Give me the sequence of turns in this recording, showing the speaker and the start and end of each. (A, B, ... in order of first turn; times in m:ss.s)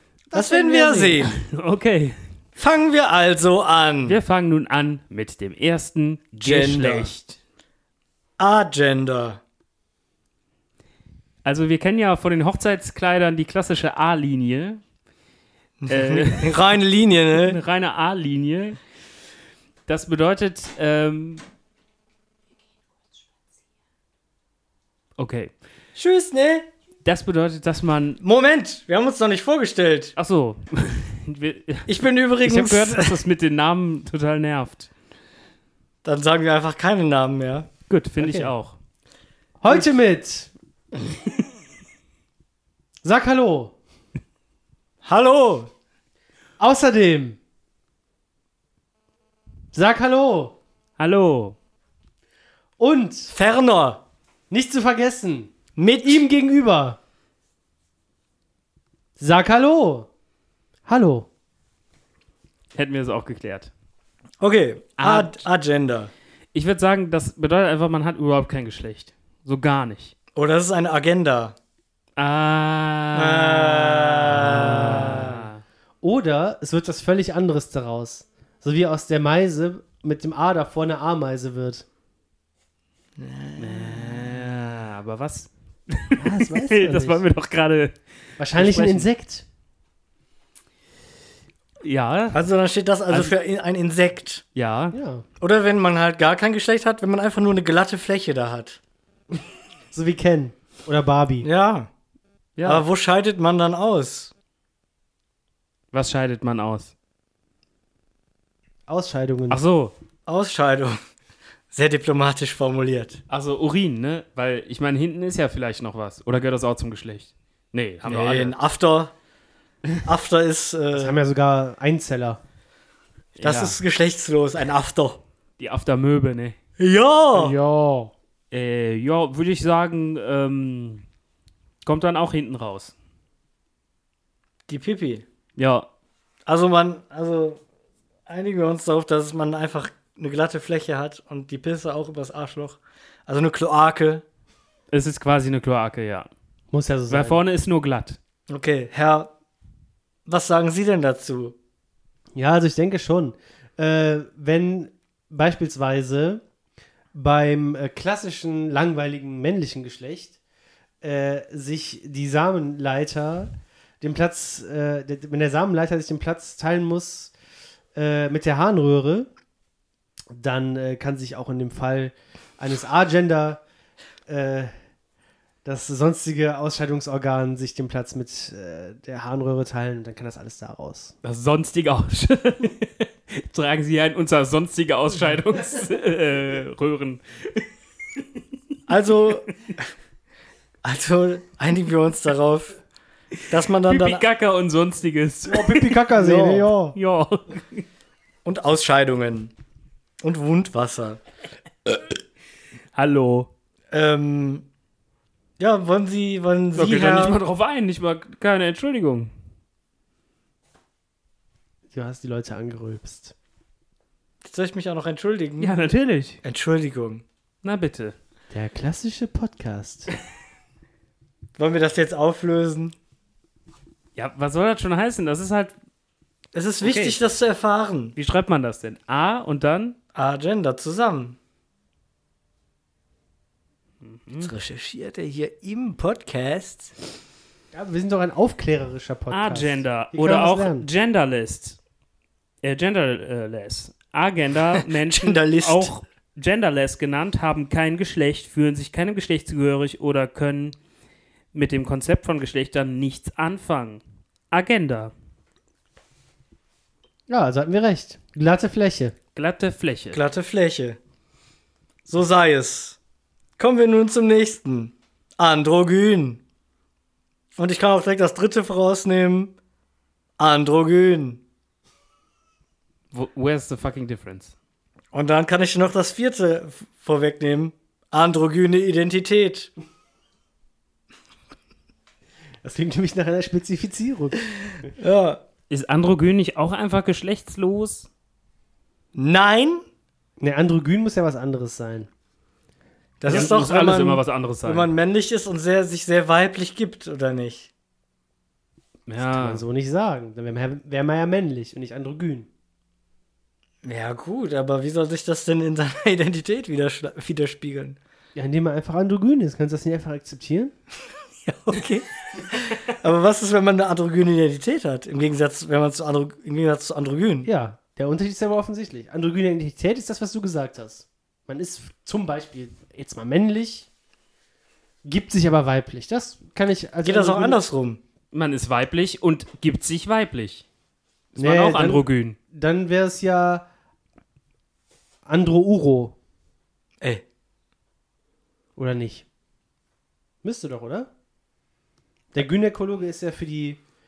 0:00.3-0:01.2 A
0:00.3-0:01.4 B
0:01.2-0:02.2 C
0:02.6-0:04.2 B
0:04.0-0:07.4 C
0:06.4-0:07.1 B
0:08.4-0:09.4 B
0:11.4-0:14.8 C
0:15.8-0:17.6 B
0:15.9-0:16.6 C
0:17.4-0:18.8 C
0:19.9-0:21.4 C
0:25.2-0:25.5 C
0:25.9-0:26.7 B
0:27.0-0:28.2 C
0:28.2-0:30.1 B
0:30.2-0:31.9 C
0:31.9-0:33.2 B
0:32.4-0:34.9 C
0:36.0-0:37.7 B
0:37.9-0:38.8 C
0:38.2-0:38.5 A
0:39.6-0:40.5 A
0:43.0-0:43.7 A
0:45.0-0:45.7 B
0:46.6-0:47.4 A
0:49.7-0:50.6 A
0:51.0-0:51.6 C
0:52.8-0:53.3 A
0:53.3-0:54.0 B
0:54.5-0:57.0 A
0:55.8-0:56.2 B
0:59.2-1:00.1 A
1:00.9-1:01.3 A
1:02.7-1:03.7 C
1:04.4-1:06.1 B
1:05.0-1:05.4 C
1:06.5-1:10.1 C
1:10.3-1:11.5 B
1:12.2-1:15.6 C
1:13.1-1:15.3 B
1:16.0-1:21.8 A
1:23.2-1:24.5 B
1:23.6-1:28.0 C
1:26.2-1:27.2 A
1:28.4-1:29.4 A
1:28.5-1:29.1 C
1:31.8-1:32.4 C
1:32.3-1:34.4 B
1:33.1-1:33.3 C
1:34.5-1:35.0 C
1:34.9-1:35.2 A
1:35.4-1:38.8 B
1:39.9-1:41.5 A
1:41.4-1:41.9 B
1:42.6-1:42.8 C
1:42.6-1:44.3 B
1:45.9-1:46.9 C
1:48.9-1:49.6 A
1:49.5-1:49.9 C
1:50.3-1:51.0 B
1:51.7-1:53.2 B
1:53.3-1:58.5 C
1:58.0-1:59.1 B
2:00.0-2:01.2 B
2:00.9-2:02.4 A
2:03.4-2:03.8 C
2:03.4-2:05.2 B
2:05.6-2:06.6 C
2:06.8-2:07.6 B
2:07.5-2:08.1 A
2:08.5-2:11.0 C
2:11.8-2:12.9 C
2:14.7-2:15.2 B
2:15.6-2:15.9 C
2:16.4-2:17.6 B
2:18.3-2:24.2 B
2:24.9-2:26.3 C
2:26.7-2:27.4 A
2:27.1-2:28.2 C
2:28.5-2:29.3 B
2:30.2-2:31.5 B
2:32.4-2:36.4 A
2:37.1-2:40.4 A
2:41.0-2:47.3 A
2:47.9-2:49.3 A
2:50.3-2:53.6 A
2:54.3-2:54.7 A
2:55.6-3:01.1 A
3:01.2-3:07.6 C
3:08.9-3:09.5 B
3:10.8-3:12.8 B
3:13.5-3:14.2 B
3:13.8-3:15.9 C
3:15.5-3:16.7 A
3:16.2-3:16.9 B
3:16.9-3:17.8 C
3:18.4-3:19.5 B
3:20.2-3:21.2 B
3:22.9-3:23.5 C
3:23.9-3:24.6 B
3:25.6-3:27.4 B
3:26.7-3:29.3 C
3:31.9-3:33.3 A
3:34.4-3:35.7 B
3:35.6-3:36.4 C
3:36.4-3:37.2 B
3:37.6-3:38.1 C
3:38.5-3:40.1 A
3:41.6-3:42.9 B
3:44.2-3:45.7 C
3:46.5-3:48.1 B
3:46.8-3:47.2 C
3:48.2-3:50.0 C
3:50.1-3:51.4 B
3:54.0-3:54.5 C
3:54.4-3:56.9 B
3:57.7-4:00.9 A
3:59.3-4:01.8 C
4:02.6-4:10.8 C
4:05.1-4:05.9 B
4:11.5-4:15.1 C
4:17.3-4:19.1 A
4:19.3-4:20.2 C
4:20.1-4:21.0 B
4:22.1-4:23.0 B
4:23.6-4:26.4 B
4:27.6-4:29.5 B
4:30.4-4:31.4 B
4:33.1-4:34.5 C
4:35.1-4:39.7 B
4:42.6-4:44.4 A
4:45.0-4:45.4 B
4:45.7-4:48.1 C
4:49.1-4:49.8 B
4:50.4-4:52.1 A
4:53.2-4:57.7 B
4:53.3-4:54.9 C
4:53.3-4:53.5 A
4:59.1-4:59.6 C
4:59.2-5:02.5 A
5:03.8-5:08.0 B
5:08.3-5:10.7 A
5:11.4-5:17.5 B
5:17.4-5:23.9 A
5:25.0-5:27.6 A
5:27.0-5:28.0 B
5:28.3-5:30.6 C
5:31.3-5:32.4 C
5:31.4-5:33.6 A
5:35.2-5:36.1 A
5:38.8-5:39.2 A
5:40.4-5:41.1 A
5:42.3-5:43.8 A